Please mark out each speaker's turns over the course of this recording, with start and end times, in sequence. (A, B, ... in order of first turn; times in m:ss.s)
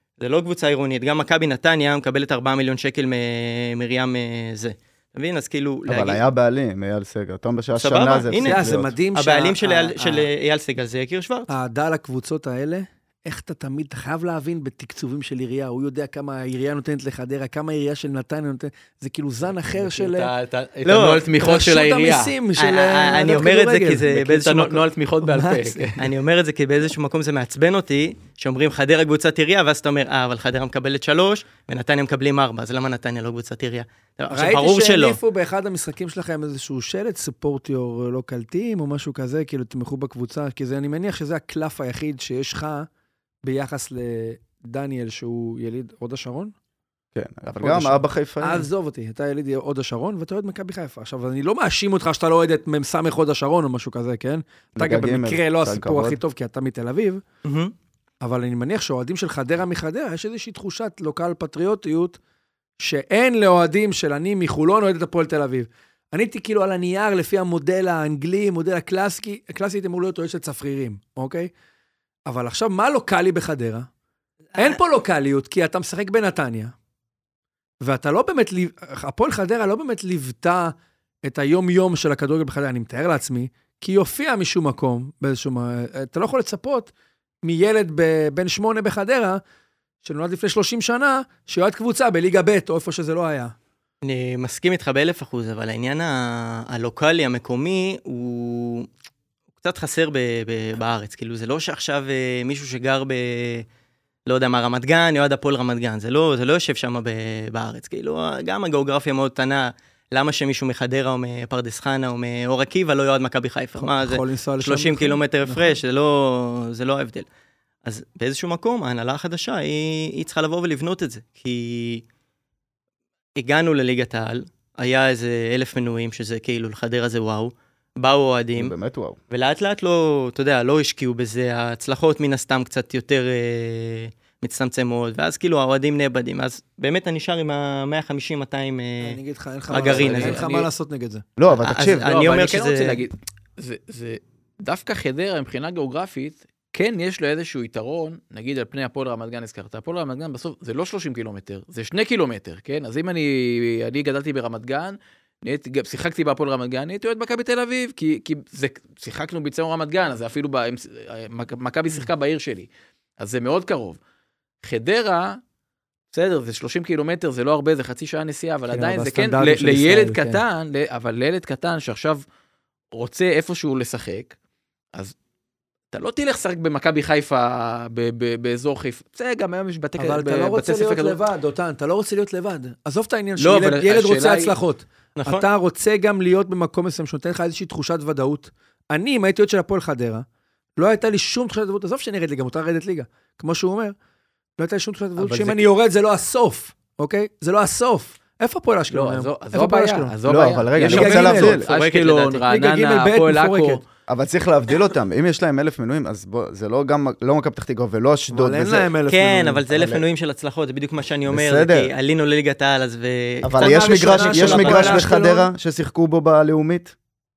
0:00.2-0:06.2 A
0:05.9-0:08.9 B
0:07.8-0:11.5 A
0:08.4-0:10.3 C
0:11.5-0:20.3 C
0:19.7-0:22.3 D
0:20.8-0:21.2 A
0:21.4-0:24.4 C
0:22.6-0:24.8 A
0:24.1-0:25.9 D
0:25.2-0:26.1 C
0:26.0-0:35.2 A
0:34.3-0:42.9 C
0:43.4-0:46.5 C
0:47.1-0:48.7 B
0:47.6-0:57.2 C
0:54.8-0:56.2 B
0:57.4-0:57.7 A
0:58.2-1:02.2 C
1:02.8-1:11.5 C
1:12.3-1:13.9 C
1:14.6-1:16.7 C
1:17.8-1:26.9 C
1:27.4-1:29.4 C
1:30.0-1:33.5 C
1:34.0-1:38.9 A
1:39.6-1:43.6 A
1:44.2-1:57.3 A
1:53.8-1:55.8 C
1:57.8-2:02.0 A
2:03.4-2:08.7 A
2:08.6-2:09.2 B
2:09.3-2:20.4 A
2:19.0-2:21.2 C
2:19.7-2:20.6 D
2:21.4-2:22.1 B
2:21.6-2:23.0 A
2:21.8-2:42.7 D
2:43.2-2:44.0 D
2:44.6-2:45.4 D
2:46.1-2:52.2 D
2:48.7-2:50.4 C
2:52.9-2:54.3 D
2:55.9-3:01.2 D
3:00.0-3:10.2 C
3:03.4-3:04.5 D
3:05.2-3:05.5 A
3:10.8-3:14.0 C
3:14.6-3:20.1 C
3:15.2-3:15.6 D
3:18.9-3:23.8 D
3:20.2-3:21.6 B
3:20.8-3:23.8 C
3:24.1-3:28.9 B
3:28.3-3:29.6 C
3:29.1-3:35.1 A
3:29.7-3:30.0 B
3:31.3-3:31.9 B
3:33.4-3:36.9 B
3:33.6-3:35.5 C